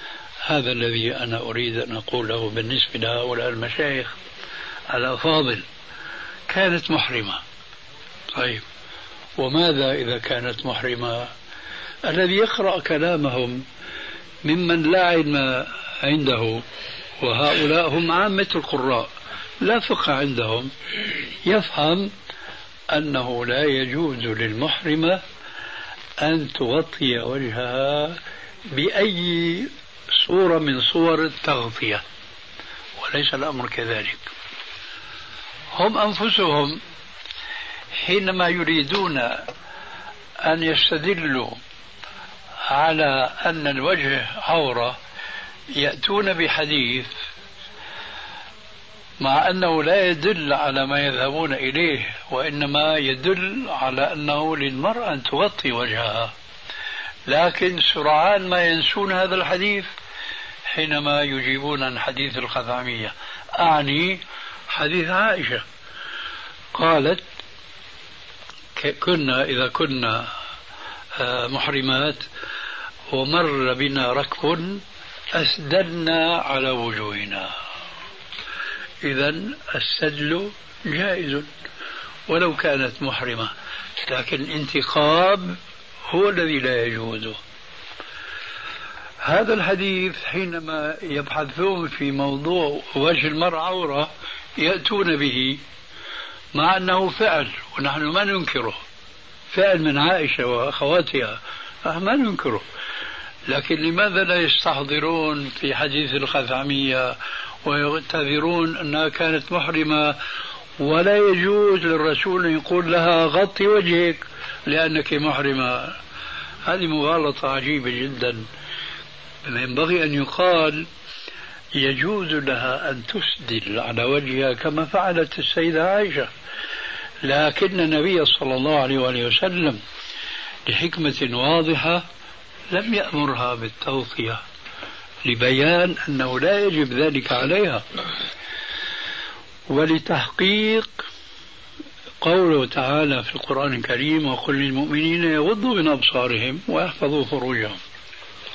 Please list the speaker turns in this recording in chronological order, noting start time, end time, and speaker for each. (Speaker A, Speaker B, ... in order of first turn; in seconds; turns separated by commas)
Speaker A: 0.5-4.2, Speaker A: 4.9-5.7, Speaker A: 6.5-7.4, Speaker A: 8.3-8.6, Speaker A: 9.4-11.3, Speaker A: 12.1-13.7, Speaker A: 14.4-16.6, Speaker A: 17.2-19.1, Speaker A: 19.6-20.7, Speaker A: 21.4-22.1, Speaker A: 22.9-25.2, Speaker A: 26.2-32.0, Speaker A: 33.0-34.3, Speaker A: 35.7-36.8, Speaker A: 38.0-39.5, Speaker A: 40.4-41.6, Speaker A: 42.7-45.0, Speaker A: 45.7-47.1, Speaker A: 49.2-56.3, Speaker A: 57.3-59.9, Speaker A: 60.7-65.6, Speaker A: 66.7-67.2, Speaker A: 68.8-70.3, Speaker A: 71.2-72.3, Speaker A: 73.1-77.5, Speaker A: 79.0-81.5, Speaker A: 82.3-83.5, Speaker A: 84.0-85.6, Speaker A: 86.1-87.4, Speaker A: 89.2-95.6, Speaker A: 96.5-98.8, Speaker A: 99.5-102.6, Speaker A: 103.5-110.2, Speaker A: 110.8-116.0, Speaker A: 116.7-118.5, Speaker A: 119.5-120.9, Speaker A: 121.8-126.3, Speaker A: 127.2-129.8, Speaker A: 130.7-132.1, Speaker A: 132.7-134.4, Speaker A: 135.2-137.8, Speaker A: 139.7-141.0, Speaker A: 142.2-147.8